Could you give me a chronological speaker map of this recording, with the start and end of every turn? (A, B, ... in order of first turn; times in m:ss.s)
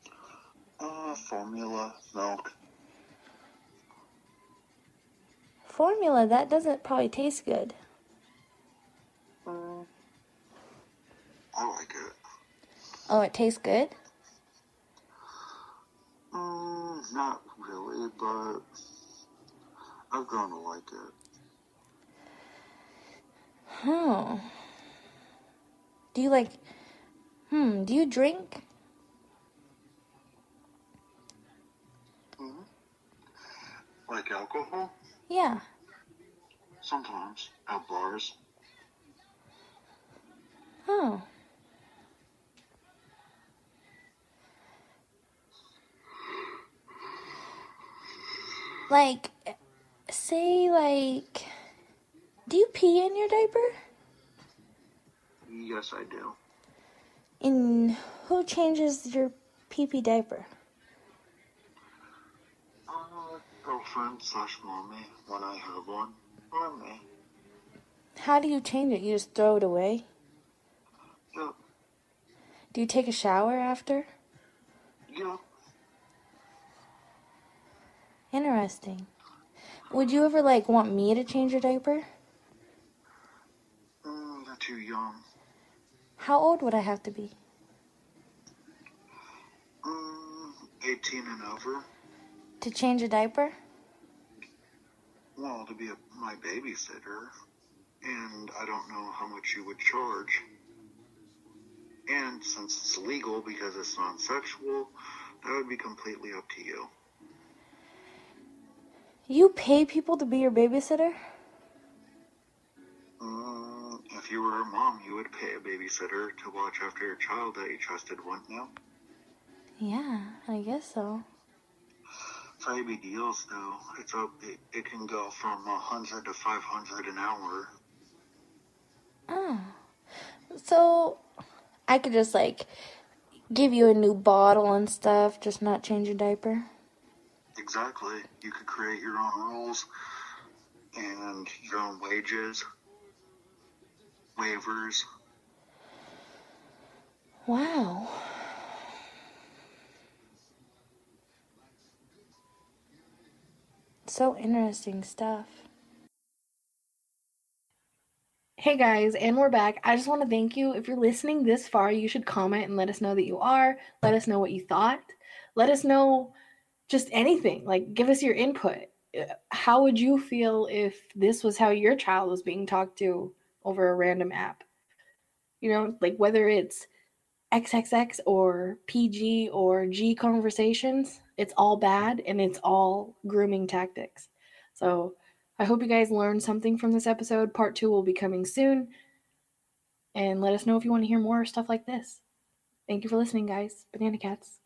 0:00.8-0:02.5 A
0:05.6-0:07.8 B
0:09.5-0:09.9 A
0:11.5-0:12.1 A
0:13.1-0:13.9 B
0:16.3-0:18.6 A
0:20.1-0:21.2 A
0:23.7-0:24.5 B
0:26.1-0:26.6 B
0:27.5-0:28.6 B
0:32.4-0:32.7 A
0:34.1-0:34.9 A
0:35.3-0:35.6 B
0:36.8-0:38.4 A
0:40.9-0:41.3 B
0:48.9-0:49.6 B
0:50.1-0:51.5 B
0:52.5-0:53.7 B
0:55.5-0:56.4 A
0:57.4-1:00.5 B
1:02.9-1:07.1 A
1:08.2-1:10.0 B
1:12.7-1:14.1 B
1:15.1-1:15.4 A
1:18.3-1:19.1 B
1:19.9-1:22.0 B
1:24.0-1:25.2 A
1:26.2-1:27.4 B
1:29.8-1:31.9 A
1:32.6-1:33.5 B
1:35.4-1:37.3 A
1:38.0-1:40.4 A
1:42.1-1:46.9 A
1:49.3-1:51.2 B
1:53.2-1:58.7 A
1:59.8-2:01.2 B
2:02.6-2:07.7 A
2:09.3-2:09.8 B
2:10.5-2:11.2 B
2:11.9-2:12.7 B
2:13.5-2:16.7 B
2:17.6-2:19.9 A
2:21.0-2:22.6 A
2:24.4-2:25.0 A
2:27.5-2:28.4 B
2:34.1-2:35.6 B
2:38.6-2:46.3 C
2:46.9-2:54.6 C
2:55.6-2:56.9 C
2:57.5-3:08.9 C
3:10.1-3:12.2 C
3:12.9-3:14.6 C